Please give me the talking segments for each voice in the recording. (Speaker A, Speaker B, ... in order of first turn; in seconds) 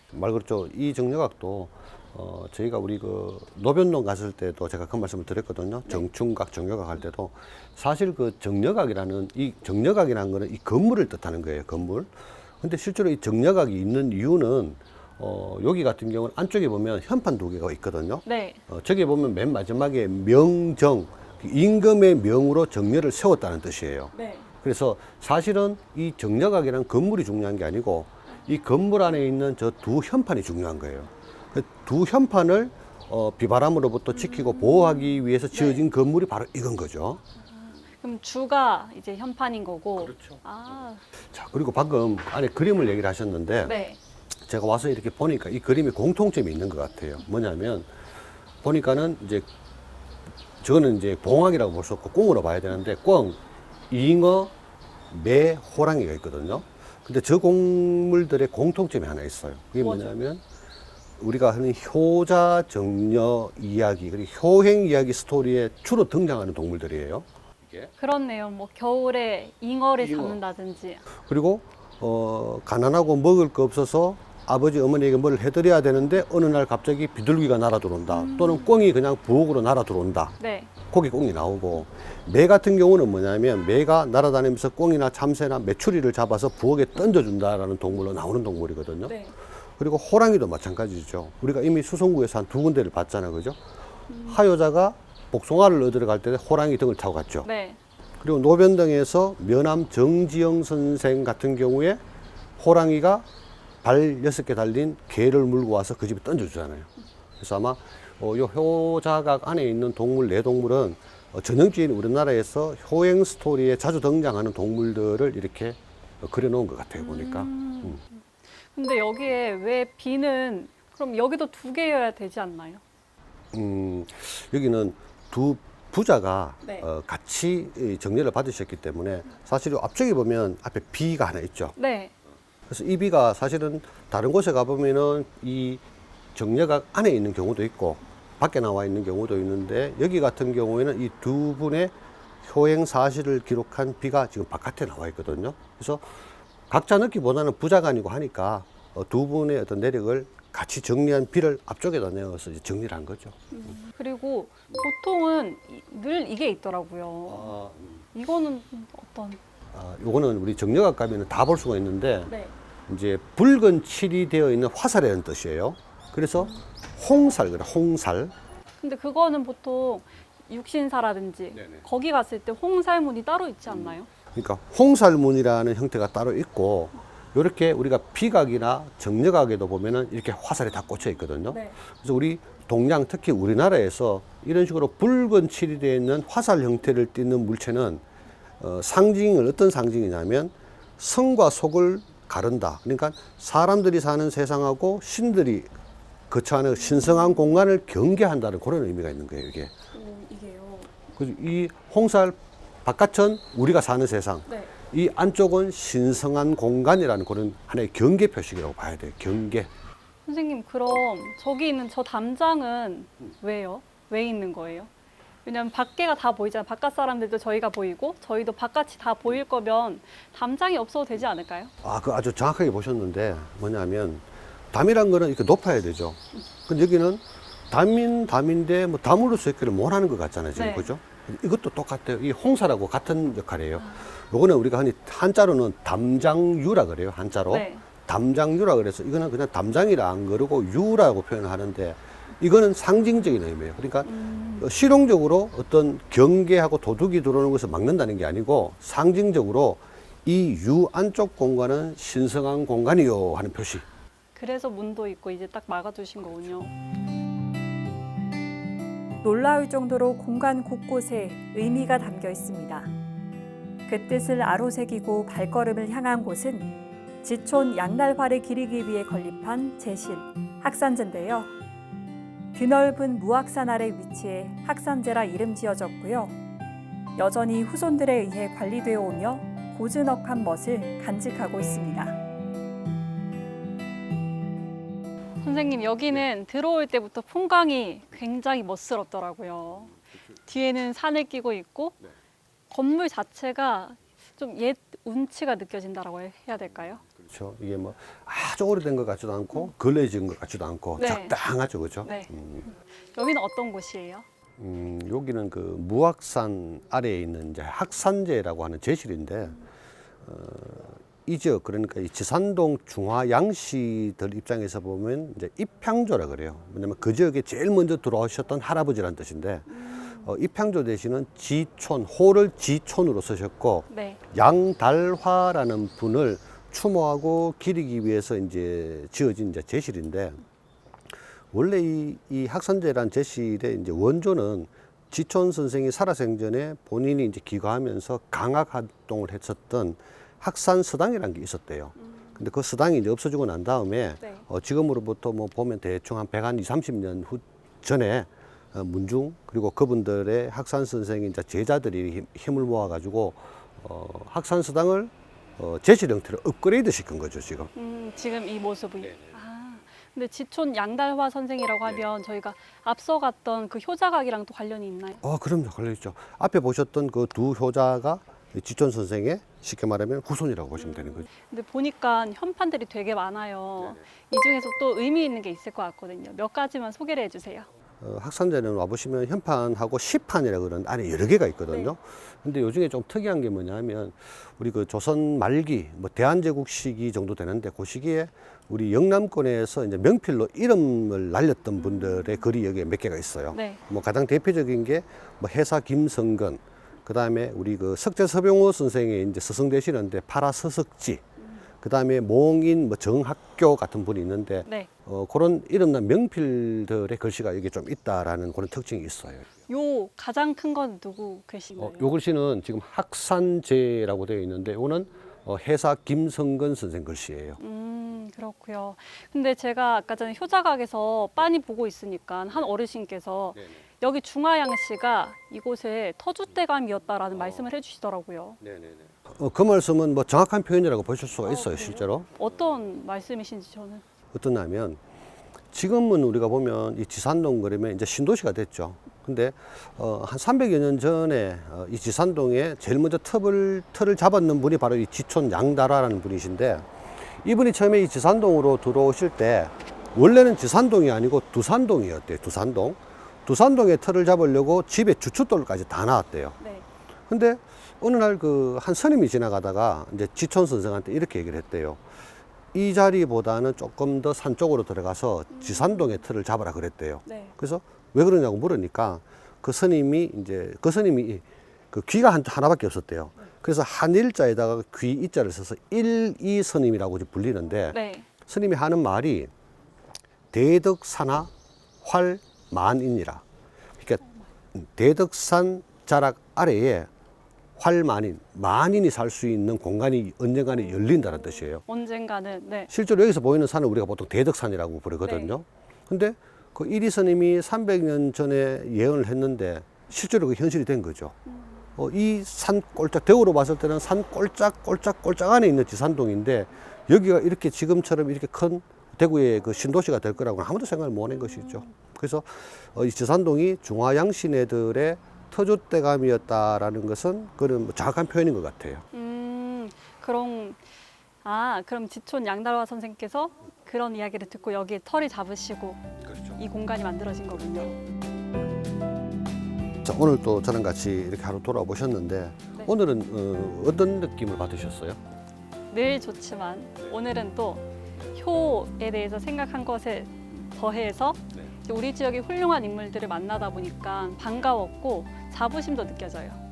Speaker A: 0.1-37.2, 40.0-40.4, 41.2-43.7, 44.5-47.9, 48.6-49.5, 50.6-54.5, 55.1-60.4, 61.2-67.9, 70.0-70.4, 71.2-80.3, 80.9-89.2, 89.8-93.6, 94.2-97.5, 98.2-102.0, 102.6-103.3, 103.8-118.0, 123.5-131.8, 132.7-135.8, 136.3-153.4, 157.2-158.0, 159.7-162.3, 162.9-168.3, 173.7-188.0, 188.6-195.7, 196.3-199.7, 201.1-209.7, 221.8-253.8, 297.2-302.7, 304.6-309.6, 310.2-330.4, 331.5-357.7, 359.0-359.4, 365.2-371.3, 378.0-401.2, 401.8-409.5, 411.8-417.6, 428.6-432.4, 434.3-435.0, 435.7-456.6, 457.3-462.1, 462.7-479.5, 480.5-481.5, 482.0-483.4, 484.0-484.2, 484.8-487.1, 487.8-491.8, 492.9-501.3, 502.0-519.0, 526.2-526.5, 530.0-535.2
Speaker B: 18.2-18.6, 24.1-24.5, 34.1-35.8, 37.4-41.0, 43.6-44.0, 59.8-60.2, 68.0-71.0, 78.1-78.8, 80.4-80.7, 89.0-89.3, 94.1-94.4, 97.4-97.8, 117.0-118.2, 118.7-122.8, 131.8-132.1, 153.5-157.5, 158.1-159.4, 162.3-162.5, 168.8-174.1, 181.5-181.8, 199.9-200.9, 210.2-214.9, 215.4-221.7, 230.5-230.9, 233.8-234.1, 237.5-237.8, 244.0-244.7, 254.3-256.7, 285.4-292.0, 292.7-297.0, 301.0-301.4, 302.0-304.2, 319.7-320.2, 323.9-324.2, 342.0-342.4, 357.8-365.2, 370.8-377.7, 393.5-393.8, 409.7-412.1, 417.6-428.6, 431.4-434.0, 456.6-456.9, 465.5-466.1, 467.2-467.5, 477.9-478.3, 491.9-492.9, 495.2-495.5, 519.1-520.8, 521.4-528.0, 535.9-546.6
Speaker C: 259.2-262.9, 263.9-271.5, 272.5-276.4, 277.1-282.1